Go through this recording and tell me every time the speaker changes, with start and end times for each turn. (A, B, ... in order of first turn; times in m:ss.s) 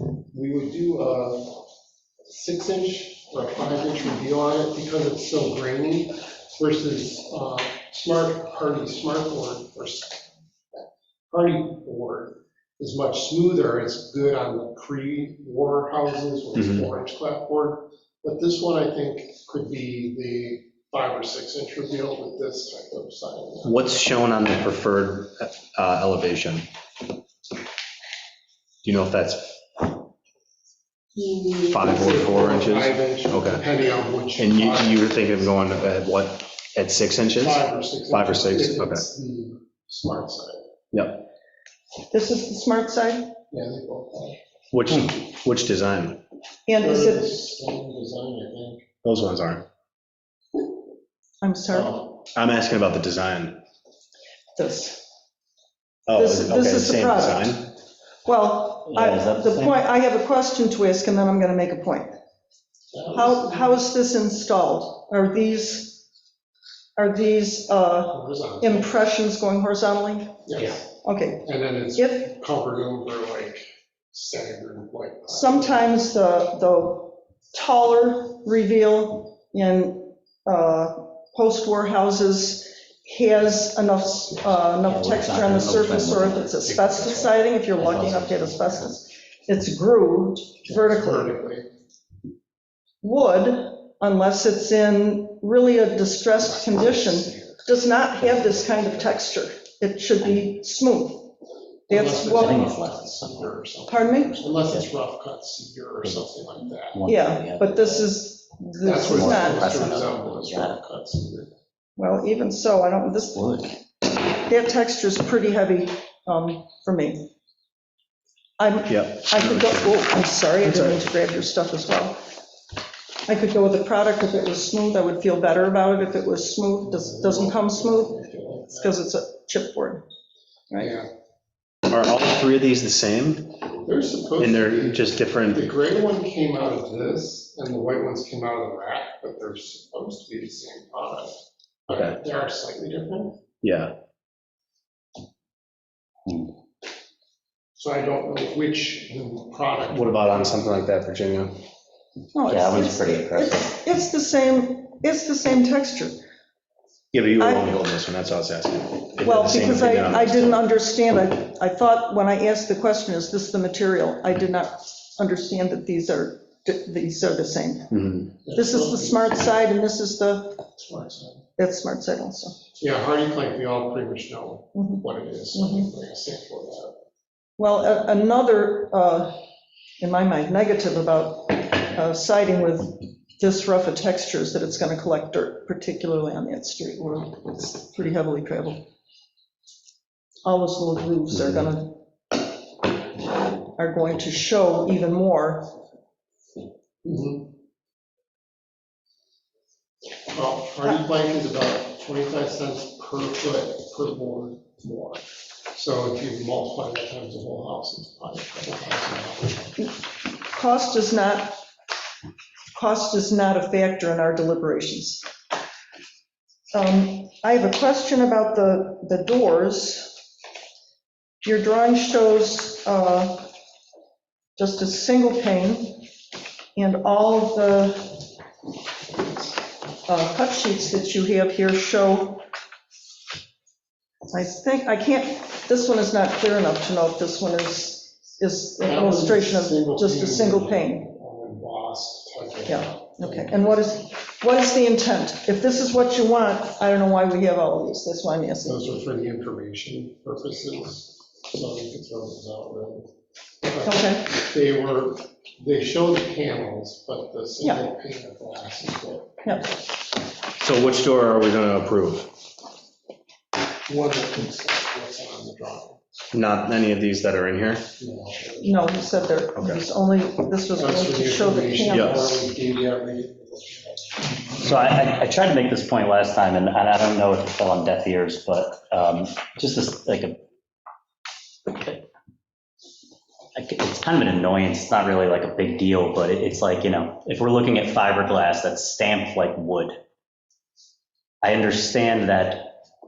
0:00.3-0:01.6 A
0:02.3-0:10.3 A
0:11.3-0:23.9 A
0:23.6-0:26.7 B
0:28.8-0:29.6 B
0:31.2-0:35.5 A
0:31.7-0:33.6 B
0:34.4-0:39.0 B
0:37.4-0:40.7 A
0:40.9-0:41.3 B
0:42.1-0:43.3 C
0:43.5-0:44.4 A
0:44.7-0:46.2 B
0:46.7-0:47.3 C
0:46.8-0:48.8 A
0:49.0-0:49.7 B
0:51.4-0:52.0 C
0:52.3-0:53.6 B
0:54.6-0:55.1 C
0:56.1-0:57.7 B
0:56.1-0:57.5 C
0:58.2-1:02.1 C
0:58.9-0:59.8 D
1:02.9-1:03.8 A
1:03.1-1:06.0 C
1:07.0-1:12.2 C
1:08.1-1:08.9 A
1:10.5-1:10.9 A
1:11.4-1:16.0 A
1:15.3-1:31.3 C
1:24.8-1:28.9 D
1:30.6-1:31.7 A
1:33.0-1:41.3 C
1:36.5-1:37.6 A
1:41.9-1:42.6 C
1:41.9-1:47.0 A
1:42.2-1:43.5 D
1:43.9-1:44.6 C
1:44.5-1:44.9 D
1:46.9-1:48.1 D
1:47.0-1:49.7 C
1:48.8-1:51.5 A
1:48.9-1:50.8 D
1:52.0-1:53.6 C
1:53.4-1:53.7 D
1:54.2-1:57.3 C
1:58.6-2:02.2 C
1:58.9-2:00.0 B
2:00.6-2:01.1 B
2:03.3-2:08.2 C
2:06.8-2:09.0 A
2:08.7-2:10.0 C
2:10.8-2:11.1 A
2:11.9-2:13.6 B
2:13.8-2:23.4 A
2:14.4-2:15.7 B
2:23.6-2:24.0 B
2:27.8-2:30.7 A
2:29.9-2:31.6 B
2:32.3-2:36.2 C
2:32.5-2:33.7 D
2:37.1-2:40.6 B
2:37.4-2:37.7 C
2:39.2-2:48.0 C
2:47.9-2:48.3 B
2:48.4-2:49.4 A
2:48.5-2:50.6 C
2:50.8-2:51.4 A
2:51.6-2:52.6 C
2:52.8-2:57.0 A
2:54.8-2:55.9 C
2:57.6-2:59.4 C
3:00.0-3:08.9 C
3:10.4-3:12.0 C
3:13.8-3:15.7 C
3:17.0-3:17.5 A
3:20.3-3:29.8 A
3:30.5-3:31.6 C
3:32.7-3:35.2 C
3:36.7-3:40.2 C
3:41.4-3:43.5 C
3:44.6-3:46.1 C
3:46.8-3:48.2 C
3:50.1-3:52.4 C
3:54.3-4:01.0 C
3:58.8-4:04.1 A
4:02.7-4:08.8 C
4:08.6-4:13.1 A
4:13.6-4:19.7 A
4:13.8-4:14.3 C
4:20.6-4:22.3 B
4:23.9-4:26.0 A
4:26.3-4:27.9 B
4:28.0-4:28.9 A
4:28.6-4:32.4 C
4:29.6-4:29.8 B
4:30.8-4:34.3 A
4:31.9-4:32.3 B
4:34.5-4:40.4 D
4:41.7-4:42.0 D
4:43.6-4:50.0 D
4:51.4-4:52.8 D